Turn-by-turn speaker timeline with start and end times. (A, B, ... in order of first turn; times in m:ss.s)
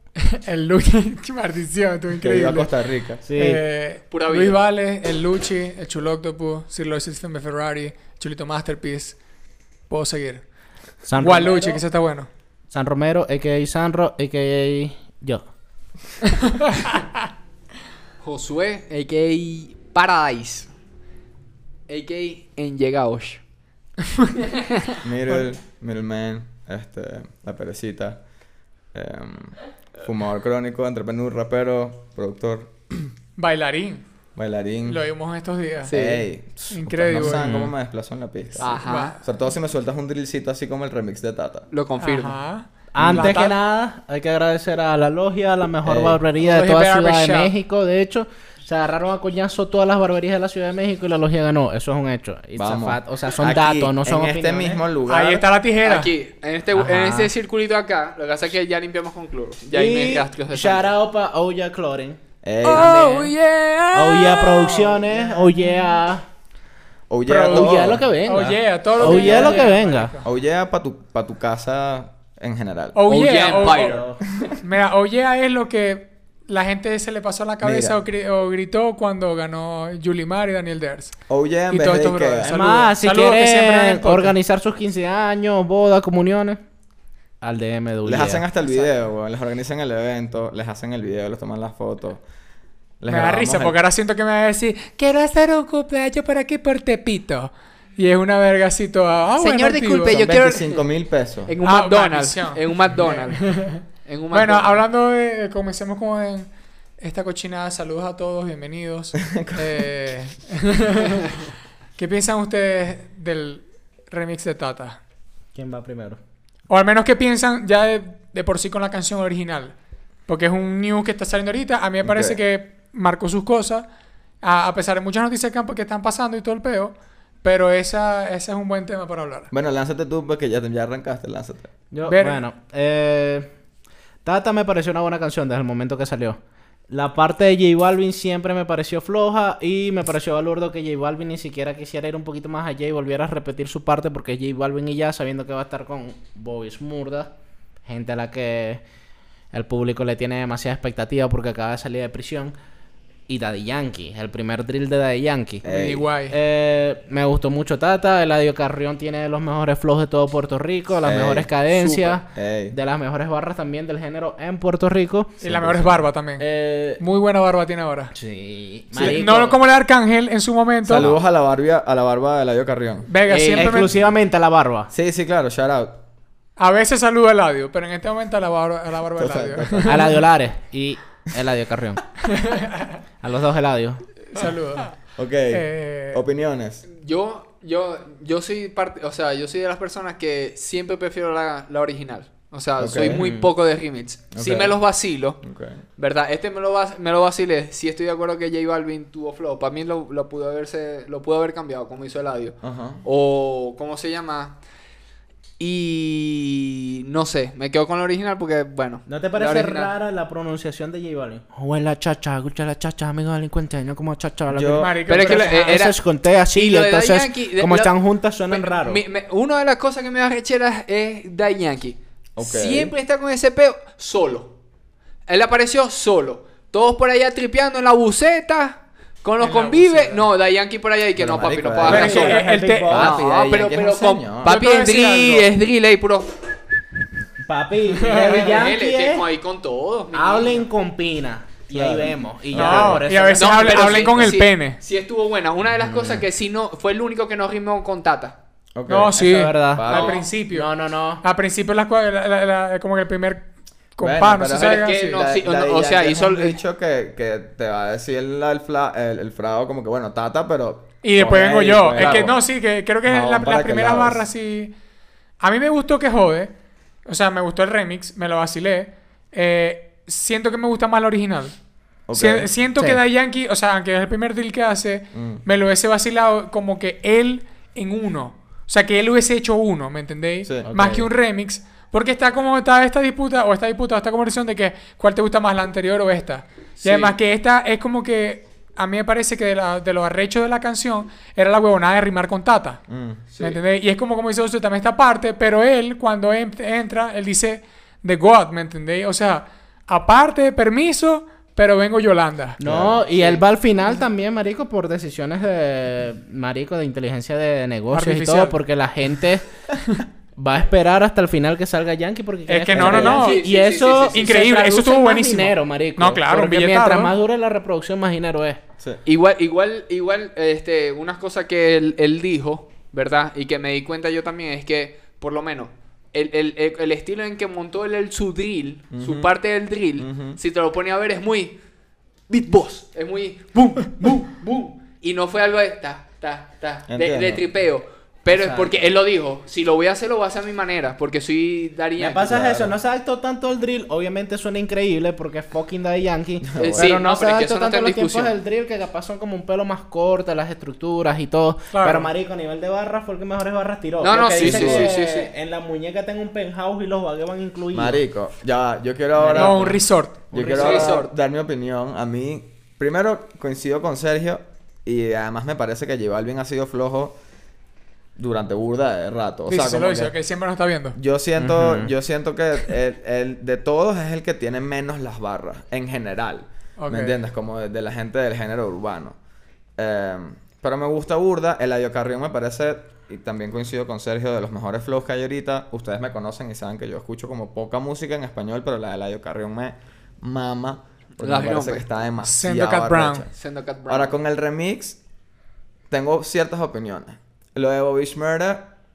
0:00.2-0:09.2 A
0:02.2-0:03.2 B
0:03.3-0:03.6 C
0:04.1-0:04.6 D
0:09.9-0:10.5 A
0:11.0-0:11.8 C
0:11.2-0:12.3 A
0:12.7-0:15.5 C
0:16.6-0:17.0 A
0:18.2-0:20.7 D
0:21.9-0:23.4 D
0:25.0-0:28.2 B
0:28.9-0:33.1 B
0:33.4-0:34.0 A
0:34.4-0:35.0 B
0:34.9-0:35.9 A
0:35.8-0:36.2 D
0:35.9-0:41.7 B
0:36.7-0:37.7 A
0:37.2-0:37.6 C
0:38.6-0:39.2 D
0:38.6-0:39.3 A
0:41.7-0:42.4 D
0:42.0-0:43.5 A
0:42.9-0:54.8 C
0:43.0-0:43.4 B
0:45.8-0:46.2 B
0:46.4-0:47.5 A
0:52.6-0:55.4 B
0:55.1-0:56.1 A
0:55.8-1:00.9 D
0:56.8-0:57.3 C
0:59.7-1:02.2 C
1:02.4-1:03.3 B
1:02.6-1:05.0 D
1:03.9-1:06.2 C
1:07.1-1:09.6 B
1:07.3-1:10.3 A
1:07.5-1:10.1 C
1:09.0-1:09.6 D
1:10.2-1:13.0 B
1:12.9-1:14.0 A
1:13.1-1:14.0 D
1:13.5-1:14.2 C
1:14.6-1:24.4 A
1:17.6-1:18.0 B
1:21.3-1:22.5 B
1:22.4-1:26.6 C
1:27.4-1:28.4 C
1:28.0-1:32.2 B
1:33.0-1:33.8 B
1:33.1-1:40.2 A
1:39.4-1:40.8 D
1:40.1-1:41.5 B
1:41.5-1:44.8 D
1:41.6-1:51.4 A
1:49.2-1:49.8 B
1:52.0-1:55.0 A
1:55.6-1:56.2 C
1:56.7-1:59.8 A
2:00.3-2:03.9 A
2:02.0-2:02.4 B
2:04.4-2:09.5 A
2:09.5-2:11.7 B
2:11.9-2:13.5 C
2:12.1-2:12.4 A
2:14.2-2:27.3 C
2:27.8-2:28.8 C
2:29.5-2:32.6 C
2:33.3-2:35.7 C
2:35.6-2:36.0 B
2:35.6-2:36.4 A
2:36.3-2:45.4 C
2:41.0-2:41.5 B
2:41.8-2:42.2 D
2:42.3-2:42.8 B
2:45.4-2:48.1 A
2:45.4-2:46.0 B
2:46.4-2:47.0 C
2:48.1-2:49.6 C
2:49.0-2:51.2 A
2:49.0-2:49.2 B
2:50.9-2:51.1 C
2:50.9-2:53.1 B
2:53.1-2:53.9 A
2:53.3-2:53.7 D
2:53.5-2:54.9 C
2:54.9-2:56.0 B
2:56.6-3:00.1 A
2:59.2-3:00.2 B
2:59.8-3:02.1 C
3:02.4-3:03.0 A
3:03.2-3:04.1 C
3:04.3-3:06.2 A
3:05.2-3:06.8 B
3:07.0-3:15.4 D
3:12.8-3:13.3 B
3:13.0-3:13.5 C
3:14.3-3:14.8 B
3:15.4-3:15.8 B
3:16.0-3:24.6 D
3:22.6-3:23.0 B
3:25.6-3:29.9 D
3:29.1-3:39.0 C
3:34.5-3:34.9 B
3:34.8-3:35.9 A
3:35.1-3:36.0 D
3:36.5-3:37.9 D
3:38.5-3:44.5 D
3:42.4-3:42.9 B
3:45.3-3:56.3 D
3:49.4-3:50.2 A
3:51.2-3:54.6 B
3:51.9-3:53.2 C
3:51.9-3:53.1 A
3:54.4-3:55.5 A
3:57.5-3:59.2 C
3:58.0-4:00.6 D
3:58.1-3:58.4 A
4:00.1-4:04.3 C
4:01.7-4:03.1 B
4:02.5-4:04.8 A
4:03.4-4:08.4 D
4:05.8-4:06.2 B
4:08.8-4:10.3 B
4:08.9-4:15.2 A
4:09.2-4:11.2 C
4:14.0-4:22.4 B
4:14.5-4:16.6 D
4:21.0-4:24.8 A
4:23.0-4:24.2 B
4:25.4-4:26.5 A
4:27.0-4:31.6 A
4:32.1-4:32.5 B
4:32.1-4:52.8 A
4:35.1-4:35.4 B
4:40.5-4:41.1 B
4:46.9-4:47.1 B
4:52.9-4:53.6 B
4:53.4-5:02.6 A
5:02.6-5:09.5 C
5:02.6-5:03.4 B
5:07.9-5:08.6 A
5:10.4-5:18.6 C
5:12.5-5:13.4 A
5:12.7-5:13.2 B
5:13.0-5:14.4 D
5:14.1-5:17.2 A
5:19.0-5:31.6 D
5:28.9-5:29.3 B
5:30.0-5:30.4 B
5:32.3-5:42.4 D
5:36.9-5:37.4 B
5:38.3-5:38.8 C
5:42.0-5:58.0 C
5:42.3-5:42.7 B
5:46.4-5:46.9 B
5:46.6-5:48.3 D
5:51.7-5:52.1 A
5:54.0-5:55.3 D
5:54.3-5:54.9 B
5:57.7-5:59.8 B
5:59.1-5:59.8 C
5:59.3-6:00.2 A
6:00.3-6:01.0 C
6:00.3-6:07.2 B
6:00.5-6:01.1 D
6:08.2-6:10.1 B
6:09.5-6:11.0 A
6:10.9-6:19.2 B
6:11.4-6:11.9 C
6:16.8-6:17.2 A
6:19.8-6:33.3 B
6:31.2-6:31.8 D
6:32.2-6:33.3 A
6:33.4-6:34.1 D
6:33.9-6:35.0 B
6:35.9-6:38.7 B